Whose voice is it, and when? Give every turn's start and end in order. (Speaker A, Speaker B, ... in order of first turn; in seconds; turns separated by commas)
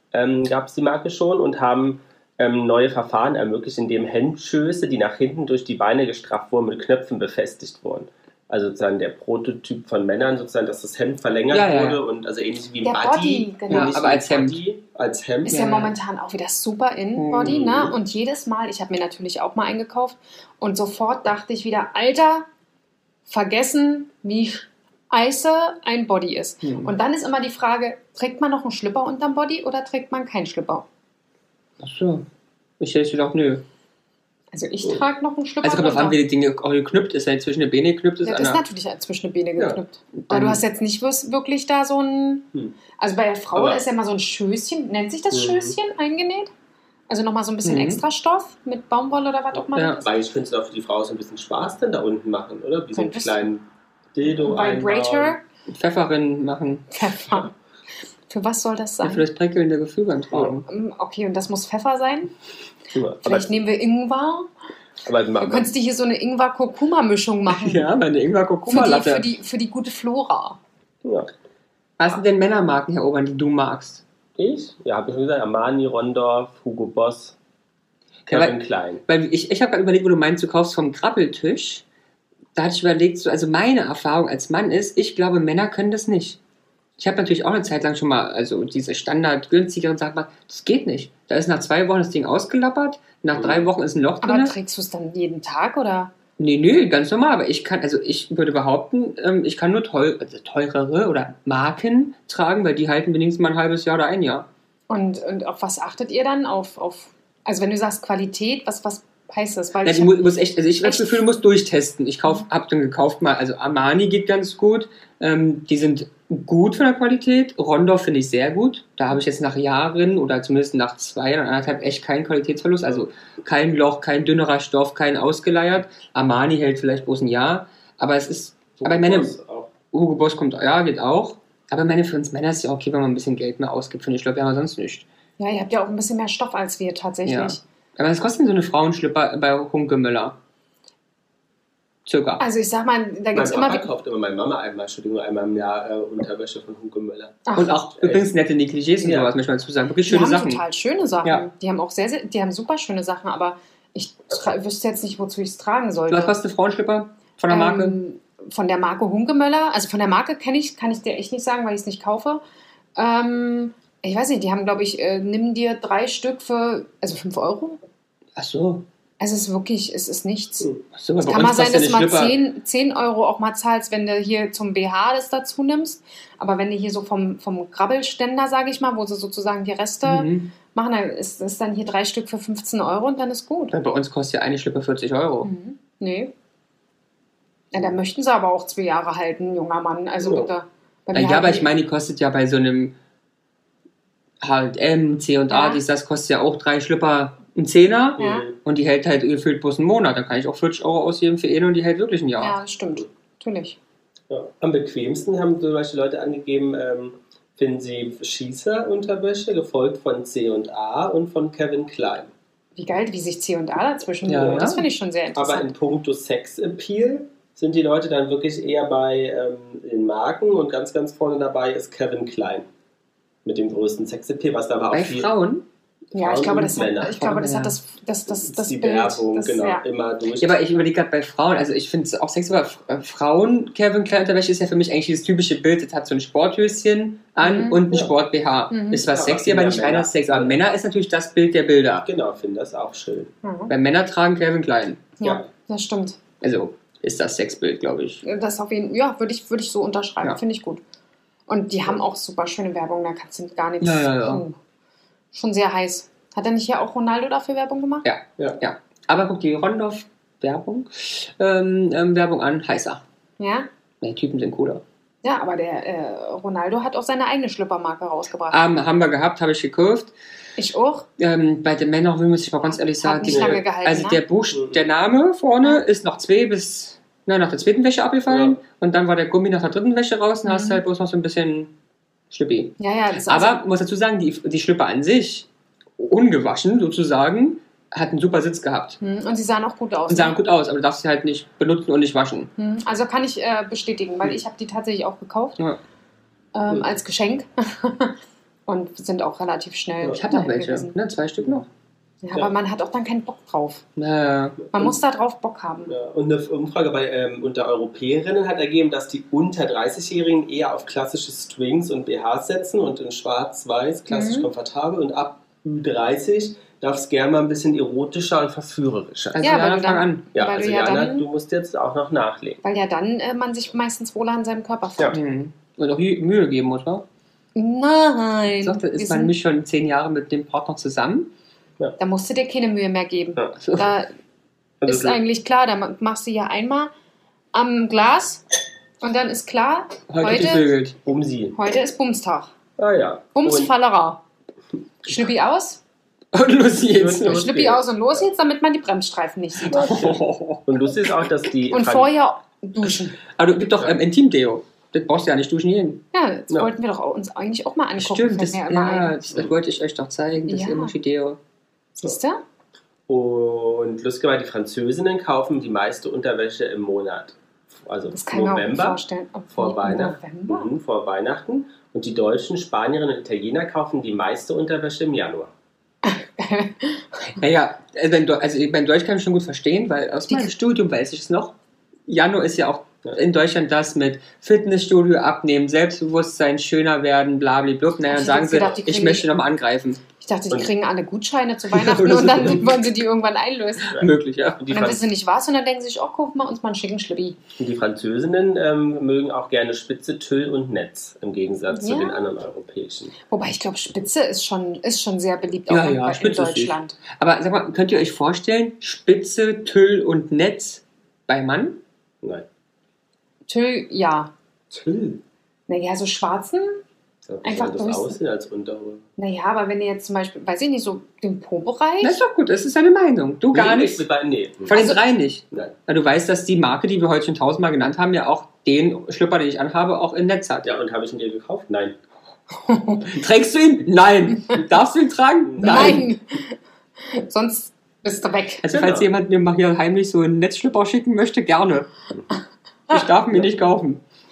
Speaker A: 0.1-15.6, Speaker B: 11.5-12.0, Speaker C: 12.8-14.0, Speaker B: 13.7-14.6, Speaker C: 15.5-22.5, Speaker B: 15.5-15.9, Speaker B: 17.2-17.6, Speaker A: 17.4-18.0, Speaker C: 23.3-30.9, Speaker B: 26.6-26.9, Speaker B: 31.8-32.2, Speaker B: 32.8-33.6, Speaker C: 34.5-36.2, Speaker B: 35.6-38.6, Speaker C: 38.2-46.5, Speaker B: 40.2-40.6, Speaker A: 43.5-43.8, Speaker A: 45.3-45.8, Speaker C: 47.1-50.1, Speaker B: 47.6-48.0, Speaker A: 50.0-55.4, Speaker C: 52.9-53.5, Speaker C: 54.4-55.4, Speaker B: 55.7-56.9, Speaker C: 56.9-57.5, Speaker C: 58.3-59.2, Speaker B: 59.0-60.7, Speaker C: 60.7-62.3, Speaker A: 62.9-63.5, Speaker C: 63.2-64.5, Speaker A: 65.0-65.7, Speaker C: 65.4-67.9, Speaker B: 67.5-69.3, Speaker C: 68.7-70.6, Speaker A: 71.0-71.3, Speaker B: 72.0-74.0, Speaker A: 74.4-77.4, Speaker B: 78.3-81.8, Speaker A: 78.3-79.0, Speaker B: 82.6-86.4, Speaker B: 87.0-94.5, Speaker A: 93.3-93.7, Speaker C: 94.2-96.1, Speaker B: 96.4-104.5, Speaker C: 104.9-110.2, Speaker B: 109.8-129.3, Speaker C: 110.8-111.2, Speaker A: 128.8-129.7, Speaker B: 129.9-135.1, Speaker C: 135.4-137.6, Speaker B: 137.2-140.4, Speaker B: 142.1-142.4, Speaker C: 142.4-143.9, Speaker A: 143.3-147.4, Speaker C: 147.5-147.8, Speaker B: 147.6-150.6, Speaker A: 148.0-148.3, Speaker A: 149.0-149.3, Speaker C: 150.1-156.3, Speaker B: 156.1-158.0, Speaker C: 157.5-162.4, Speaker C: 163.0-167.8, Speaker B: 168.4-168.8, Speaker C: 169.2-170.7, Speaker B: 170.9-172.4, Speaker C: 171.2-183.7, Speaker B: 180.0-180.5, Speaker B: 183.7-185.5, Speaker C: 185.4-186.3, Speaker C: 187.7-191.7, Speaker A: 190.2-190.5, Speaker B: 191.1-192.9, Speaker B: 194.4-202.6, Speaker C: 195.5-195.8, Speaker A: 198.2-198.6, Speaker C: 198.2-198.5, Speaker C: 202.4-203.8, Speaker A: 204.3-212.3, Speaker C: 212.8-215.7, Speaker B: 214.2-214.9, Speaker A: 215.3-222.7, Speaker A: 223.4-225.3, Speaker B: 224.9-225.7, Speaker A: 226.1-227.2, Speaker C: 226.1-229.8, Speaker B: 227.0-227.8, Speaker A: 228.3-230.6, Speaker B: 230.4-242.1, Speaker C: 237.4-237.8, Speaker C: 238.7-239.1, Speaker A: 239.1-240.6, Speaker A: 242.0-243.3, Speaker C: 243.4-243.7, Speaker B: 243.7-245.1, Speaker C: 245.2-246.2, Speaker B: 246.4-248.2, Speaker C: 248.2-250.8, Speaker C: 251.5-254.6, Speaker B: 253.8-254.4, Speaker C: 255.3-258.1, Speaker B: 258.1-263.0, Speaker C: 263.4-263.7, Speaker B: 264.0-264.8, Speaker C: 265.2-268.6, Speaker B: 268.5-270.1, Speaker C: 270.6-271.1, Speaker B: 271.2-281.7, Speaker C: 272.6-274.2, Speaker A: 273.2-273.6, Speaker A: 274.5-274.9, Speaker A: 278.3-278.6, Speaker C: 280.5-280.8, Speaker B: 282.3-285.5, Speaker C: 282.8-283.6, Speaker B: 286.0-289.0, Speaker C: 289.0-290.4, Speaker B: 290.1-292.5, Speaker C: 292.6-295.6, Speaker C: 296.5-301.0, Speaker B: 300.1-301.7, Speaker C: 302.2-303.8, Speaker B: 304.0-304.6, Speaker C: 304.7-305.9, Speaker A: 305.9-319.5, Speaker C: 314.1-314.5, Speaker B: 319.3-320.2, Speaker C: 319.4-321.3, Speaker A: 320.3-322.6, Speaker C: 322.6-325.2, Speaker B: 325.1-327.1, Speaker C: 327.6-329.3, Speaker B: 328.6-331.3, Speaker C: 332.0-334.1, Speaker B: 333.6-333.9, Speaker A: 334.8-335.2, Speaker C: 334.9-336.9, Speaker C: 337.5-338.4, Speaker C: 339.0-340.7, Speaker B: 340.1-341.0, Speaker A: 341.1-341.6, Speaker C: 341.6-342.5, Speaker A: 342.8-343.7, Speaker C: 343.4-344.2, Speaker C: 345.0-345.8, Speaker B: 346.3-347.5, Speaker A: 346.8-348.2, Speaker C: 347.2-349.9, Speaker B: 349.7-350.7, Speaker A: 349.7-352.1, Speaker C: 351.7-353.2, Speaker B: 353.4-356.0, Speaker C: 356.1-359.1, Speaker B: 358.0-361.4, Speaker C: 360.5-360.9, Speaker C: 362.0-362.4, Speaker A: 363.1-375.5, Speaker C: 368.1-370.7, Speaker C: 376.0-377.3, Speaker B: 377.4-381.6, Speaker B: 382.1-390.0, Speaker C: 388.1-389.3, Speaker C: 390.2-394.0, Speaker B: 391.8-392.8, Speaker B: 393.9-394.6, Speaker A: 393.9-395.0, Speaker C: 394.7-397.4, Speaker A: 397.6-403.2, Speaker C: 401.7-402.2, Speaker C: 403.3-407.0, Speaker B: 405.7-411.8, Speaker C: 413.5-414.3, Speaker A: 414.7-415.2, Speaker C: 415.7-416.8, Speaker A: 417.3-419.1, Speaker C: 417.4-418.2, Speaker C: 419.2-422.2, Speaker B: 422.0-424.0, Speaker A: 423.5-424.8, Speaker B: 424.6-430.7, Speaker C: 424.7-425.0, Speaker A: 430.6-432.0, Speaker C: 432.6-433.1, Speaker B: 433.0-436.1, Speaker A: 435.4-436.0, Speaker C: 435.6-438.6, Speaker B: 438.6-441.9, Speaker A: 438.7-439.1, Speaker B: 442.9-444.0